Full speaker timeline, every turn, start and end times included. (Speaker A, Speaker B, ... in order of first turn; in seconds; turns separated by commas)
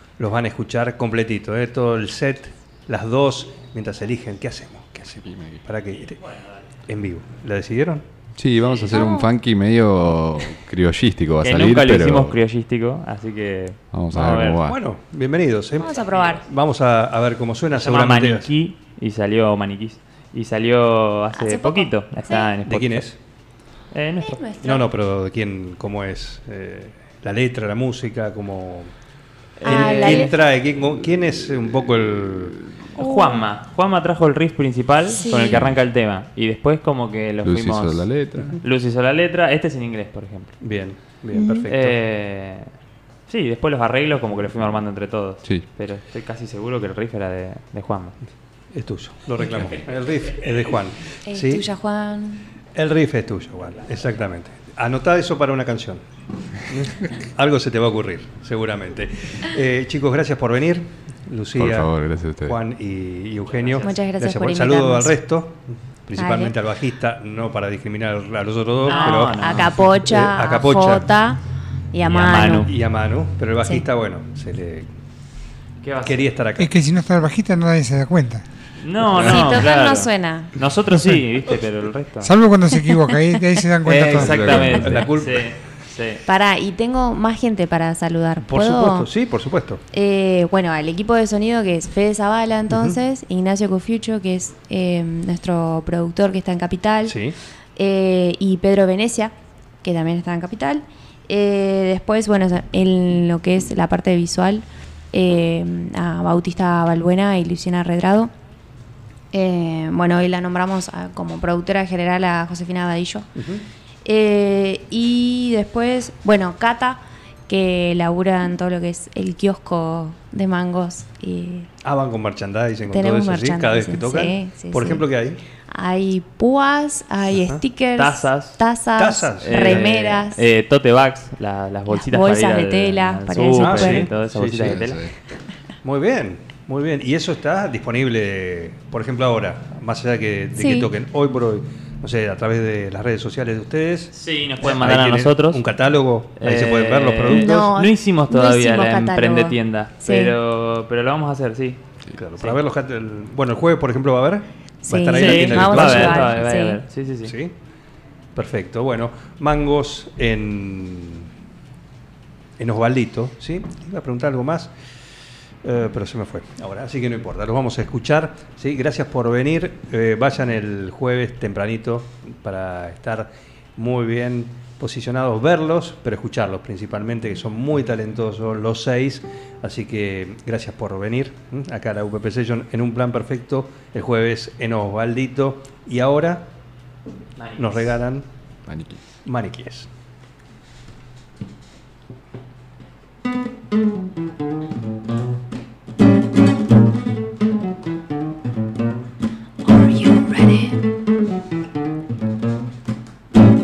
Speaker A: 0.2-6.2, Speaker B: 5.2-5.6, Speaker C: 6.2-6.5, Speaker A: 6.9-8.1, Speaker B: 8.4-12.4, Speaker D: 8.9-9.3, Speaker C: 11.4-14.6, Speaker B: 13.9-14.8, Speaker A: 14.6-18.5, Speaker D: 15.8-16.4, Speaker C: 16.1-16.4, Speaker C: 17.7-23.1, Speaker D: 21.3-22.5, Speaker A: 22.6-23.2, Speaker C: 23.9-24.4, Speaker D: 24.2-24.8, Speaker A: 24.6-28.9, Speaker C: 29.6-30.3, Speaker D: 29.6-30.3, Speaker A: 29.6-32.6, Speaker C: 33.0-40.5, Speaker D: 33.0-33.5, Speaker D: 35.1-35.7, Speaker B: 37.4-38.6, Speaker A: 40.6-42.0, Speaker D: 41.4-41.6, Speaker C: 41.7-42.7, Speaker C: 43.3-48.2, Speaker A: 48.7-51.7, Speaker C: 49.5-49.8, Speaker D: 51.3-52.5, Speaker A: 52.8-56.0, Speaker A: 56.7-61.9, Speaker B: 61.5-62.6, Speaker A: 62.4-71.2, Speaker C: 63.6-64.0, Speaker D: 63.8-65.2, Speaker D: 66.2-66.5, Speaker C: 68.8-69.8, Speaker D: 68.9-71.4, Speaker D: 71.9-72.7, Speaker C: 72.0-72.7, Speaker A: 72.3-74.9, Speaker C: 75.8-76.3, Speaker A: 76.0-76.7, Speaker E: 76.6-78.4, Speaker C: 78.8-82.3, Speaker D: 79.2-80.5, Speaker E: 82.2-84.7, Speaker D: 82.8-83.4, Speaker C: 83.8-86.2, Speaker B: 84.1-85.1, Speaker A: 84.2-85.5, Speaker D: 86.3-89.1, Speaker A: 88.4-89.8, Speaker D: 89.9-97.2, Speaker A: 92.7-93.0, Speaker A: 97.0-97.4, Speaker D: 97.8-108.3, Speaker D: 109.3-113.3, Speaker A: 113.4-113.7, Speaker D: 114.0-121.7, Speaker A: 121.8-125.4, Speaker D: 122.9-125.0, Speaker D: 125.7-130.4, Speaker A: 127.3-127.6, Speaker C: 128.0-128.6, Speaker A: 129.0-130.1, Speaker C: 129.4-135.0, Speaker D: 131.9-134.1, Speaker A: 133.6-135.0, Speaker B: 134.6-135.1, Speaker A: 135.8-147.8, Speaker D: 140.6-140.9, Speaker C: 144.1-145.6, Speaker C: 146.4-151.8, Speaker D: 147.2-150.4, Speaker A: 152.1-156.4, Speaker D: 154.9-156.8, Speaker C: 155.1-157.3, Speaker A: 157.2-157.6, Speaker A: 158.3-161.3, Speaker A: 162.6-164.7, Speaker A: 165.6-186.5, Speaker C: 187.4-188.0, Speaker A: 187.6-188.3, Speaker B: 188.7-189.0, Speaker A: 189.2-189.9, Speaker D: 199.6-200.8